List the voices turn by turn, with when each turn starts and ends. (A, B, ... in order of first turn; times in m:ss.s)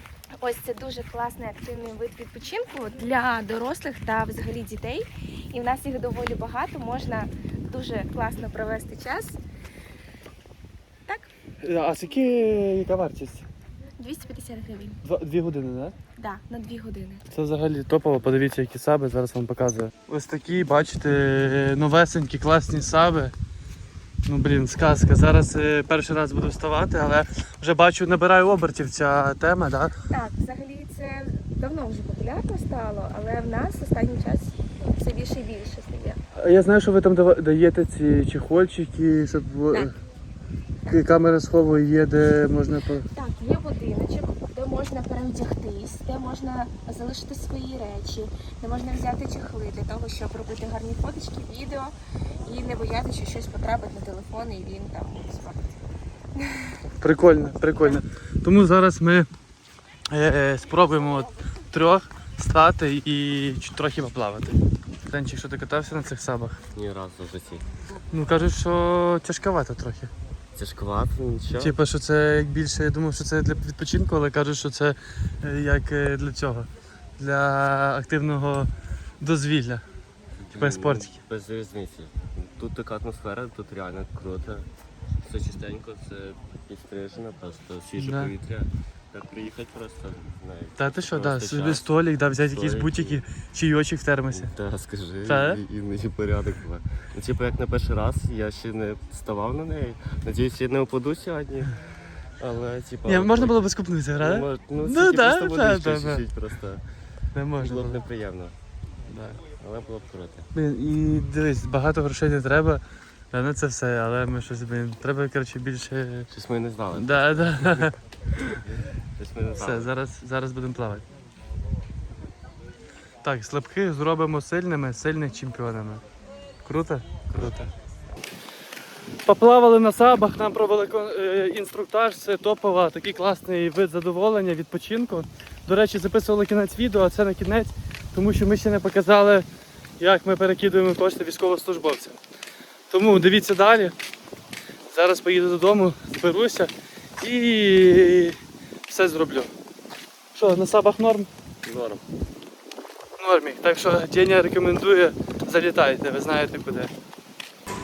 0:00.4-0:09.4 A
0:11.6-0:13.4 B
0:14.0-0:15.0 A
0:15.0-0:15.9 B
0:16.2-0:17.2 A
0:17.3-0:23.3 B
0:24.2-0:29.9 B
0:30.1-0:36.2 A
0:36.4-0:39.9 B
0:40.9-0:43.1 B
0:43.1-0:55.6 A
0:56.4-0:56.7 A
0:57.0-0:59.3 B
1:00.1-1:06.6 B
1:06.7-1:07.6 C
1:08.1-1:10.1 B
1:10.5-1:11.8 C
1:11.5-1:18.7 B
1:19.2-1:19.8 B
1:20.4-1:24.7 C
1:20.5-1:21.2 B
1:25.2-1:31.9 C
1:28.0-1:28.3 B
1:30.8-1:34.5 B
1:32.5-1:33.2 C
1:34.3-1:41.7 C
1:35.2-1:35.6 B
1:42.4-1:46.8 C
1:43.0-1:46.2 B
1:47.3-1:48.0 B
1:47.6-1:48.6 C
1:49.1-1:49.4 B
1:49.6-1:50.4 C
1:50.5-1:56.3 B
1:56.3-1:57.9 C
1:56.9-1:57.9 B
1:58.6-1:59.9 C
1:59.6-2:01.0 B
2:03.2-2:06.0 B
2:06.6-2:07.7 B
2:07.3-2:07.5 C
2:09.2-2:19.4 B
2:20.0-2:22.2 B
2:22.9-2:23.9 B
2:24.9-2:28.4 B
2:28.9-2:29.5 B
2:30.3-2:31.3 B
2:31.6-2:32.0 C
2:33.2-2:36.9 B